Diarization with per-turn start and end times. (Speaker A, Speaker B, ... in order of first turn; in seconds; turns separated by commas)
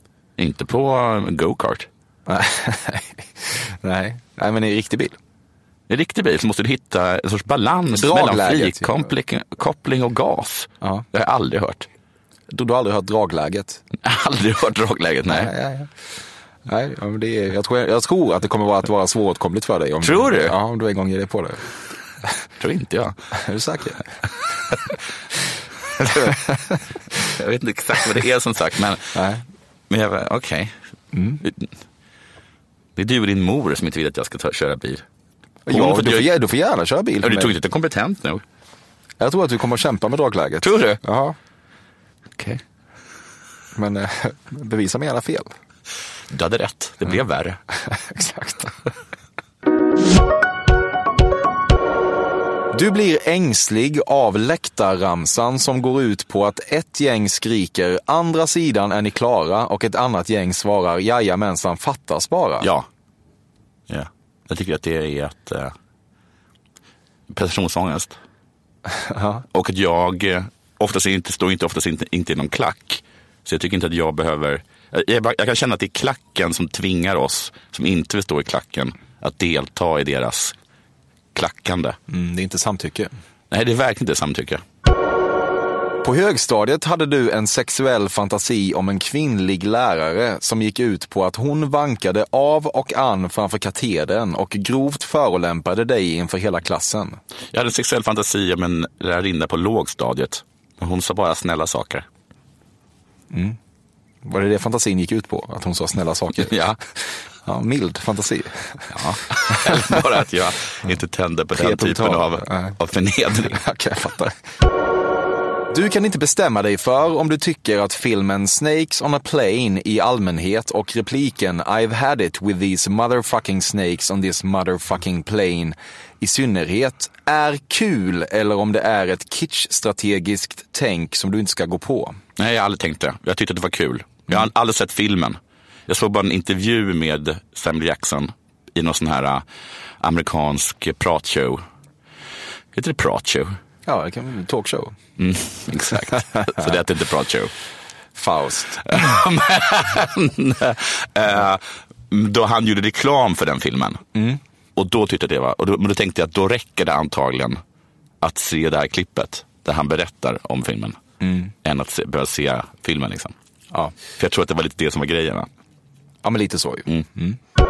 Speaker A: 0.4-1.9, Speaker B: 2.3-5.2, Speaker A: 5.9-11.9, Speaker B: 7.9-9.1, Speaker B: 12.5-13.8, Speaker A: 14.0-15.5, Speaker B: 15.3-15.9, Speaker B: 16.7-21.6, Speaker A: 20.0-20.6, Speaker A: 22.6-23.2, Speaker B: 23.4-24.0, Speaker B: 26.0-26.8, Speaker A: 27.3-29.1, Speaker B: 29.1-29.4, Speaker A: 29.9-30.7, Speaker B: 31.1-31.4, Speaker A: 33.0-35.0, Speaker B: 35.7-37.5, Speaker A: 35.7-36.3, Speaker A: 37.2-38.4, Speaker B: 39.2-41.4, Speaker A: 40.6-41.0, Speaker B: 43.8-45.5, Speaker A: 46.3-47.6, Speaker B: 47.8-48.9, Speaker B: 52.7-62.7, Speaker A: 62.6-62.9, Speaker A: 63.9-65.7, Speaker A: 67.3-68.2, Speaker B: 68.9-69.4, Speaker A: 69.5-80.5, Speaker A: 81.3-82.0, Speaker B: 82.1-83.1, Speaker A: 83.5-84.6, Speaker B: 86.0-97.2, Speaker A: 97.5-102.0, Speaker B: 103.3-103.6, Speaker B: 104.2-106.5, Speaker A: 106.4-106.8, Speaker B: 107.4-109.0, Speaker A: 108.9-113.6, Speaker B: 109.5-109.9, Speaker B: 111.6-112.8, Speaker B: 113.5-114.4, Speaker B: 115.7-132.2, Speaker A: 132.4-139.4, Speaker A: 140.0-141.6, Speaker A: 142.8-143.6, Speaker B: 143.8-144.9, Speaker A: 145.2-147.5, Speaker B: 148.2-149.0, Speaker A: 148.9-154.0, Speaker A: 154.8-157.6, Speaker A: 158.2-161.0, Speaker B: 161.2-161.5, Speaker A: 161.6-163.3, Speaker A: 164.2-165.5, Speaker B: 166.2-167.4